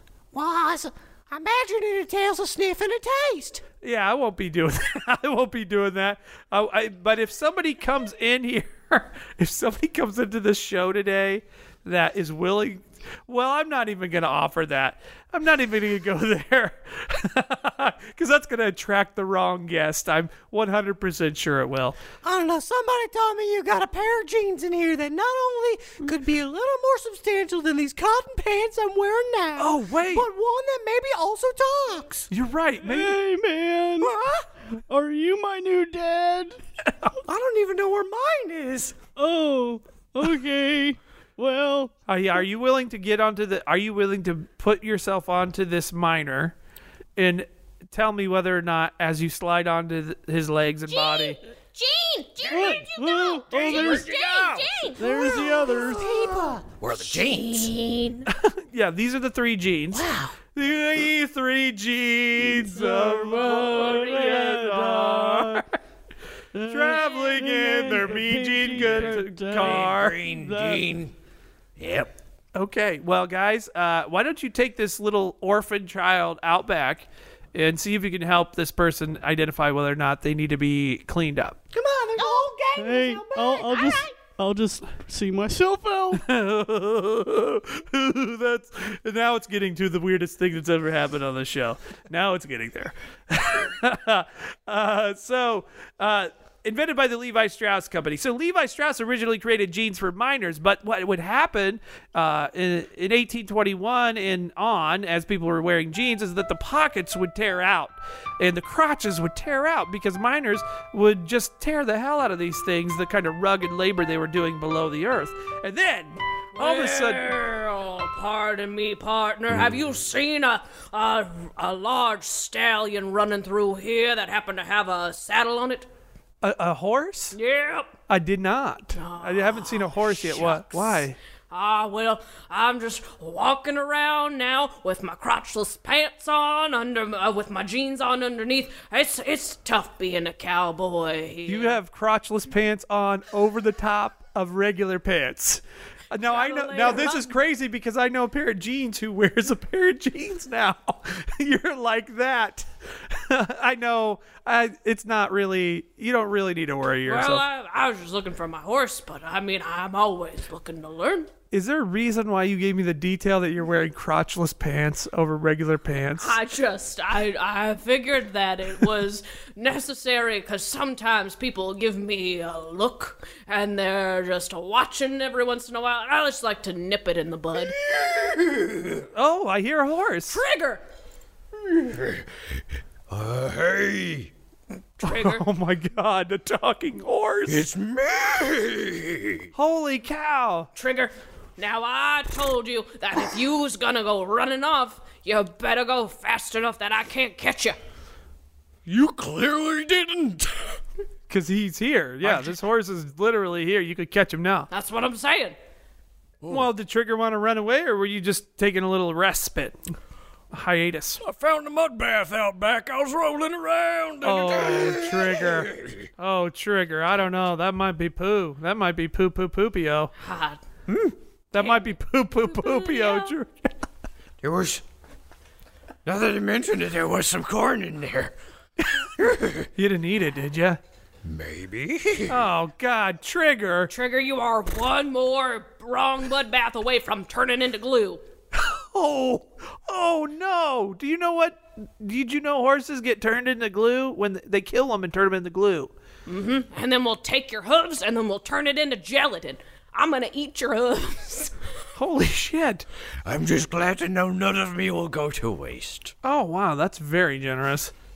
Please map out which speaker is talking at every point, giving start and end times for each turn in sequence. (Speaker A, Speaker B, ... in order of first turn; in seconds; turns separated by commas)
Speaker A: 0.3-3.6, Speaker B: 3.8-22.0, Speaker A: 22.2-32.3, Speaker B: 29.6-30.3, Speaker B: 32.3-33.2, Speaker C: 32.8-34.1, Speaker A: 34.0-34.5, Speaker C: 34.9-36.6, Speaker A: 37.2-39.0, Speaker C: 39.2-41.9, Speaker B: 42.1-46.5, Speaker B: 47.2-51.4, Speaker D: 50.9-56.0, Speaker E: 52.4-52.9, Speaker C: 52.5-54.1, Speaker E: 53.5-54.7, Speaker C: 55.0-56.1, Speaker A: 55.8-56.6, Speaker E: 56.7-57.7, Speaker D: 57.0-58.3, Speaker B: 58.3-65.8, Speaker A: 59.9-60.3, Speaker C: 62.6-65.6, Speaker C: 66.5-70.9, Speaker B: 66.7-70.2, Speaker E: 69.0-71.1, Speaker E: 71.8-72.1, Speaker B: 72.5-81.6, Speaker A: 81.7-83.7, Speaker D: 82.2-82.5, Speaker C: 82.8-86.2, Speaker D: 83.6-84.2, Speaker B: 86.2-117.3, Speaker F: 116.5-125.9, Speaker B: 126.4-127.4, Speaker F: 127.3-127.9, Speaker B: 128.1-131.2, Speaker F: 128.9-141.8, Speaker B: 141.5-157.4, Speaker F: 146.2-147.3, Speaker F: 157.1-161.3, Speaker B: 161.5-166.4, Speaker F: 166.2-177.8, Speaker E: 177.9-179.0, Speaker B: 179.1-180.4, Speaker F: 180.3-180.8, Speaker E: 181.7-182.2, Speaker E: 183.1-184.3, Speaker F: 185.0-185.4, Speaker B: 185.0-187.7, Speaker E: 187.5-189.4, Speaker B: 189.5-190.7, Speaker F: 190.8-197.8, Speaker E: 198.9-200.8, Speaker B: 201.3-204.7, Speaker F: 204.7-205.6, Speaker E: 206.4-206.7, Speaker B: 206.5-209.8, Speaker B: 210.5-211.2, Speaker E: 211.2-216.0, Speaker B: 214.2-220.1, Speaker F: 220.2-220.6, Speaker B: 220.9-223.5, Speaker F: 221.6-221.9, Speaker F: 222.5-223.3, Speaker E: 224.4-224.8, Speaker E: 226.1-228.3, Speaker E: 229.2-229.7, Speaker B: 229.8-230.8, Speaker E: 231.2-232.4, Speaker B: 232.3-233.9, Speaker F: 233.9-238.2, Speaker B: 238.5-245.9, Speaker F: 246.3-251.5, Speaker B: 252.0-252.8, Speaker E: 253.2-256.1, Speaker B: 256.2-257.9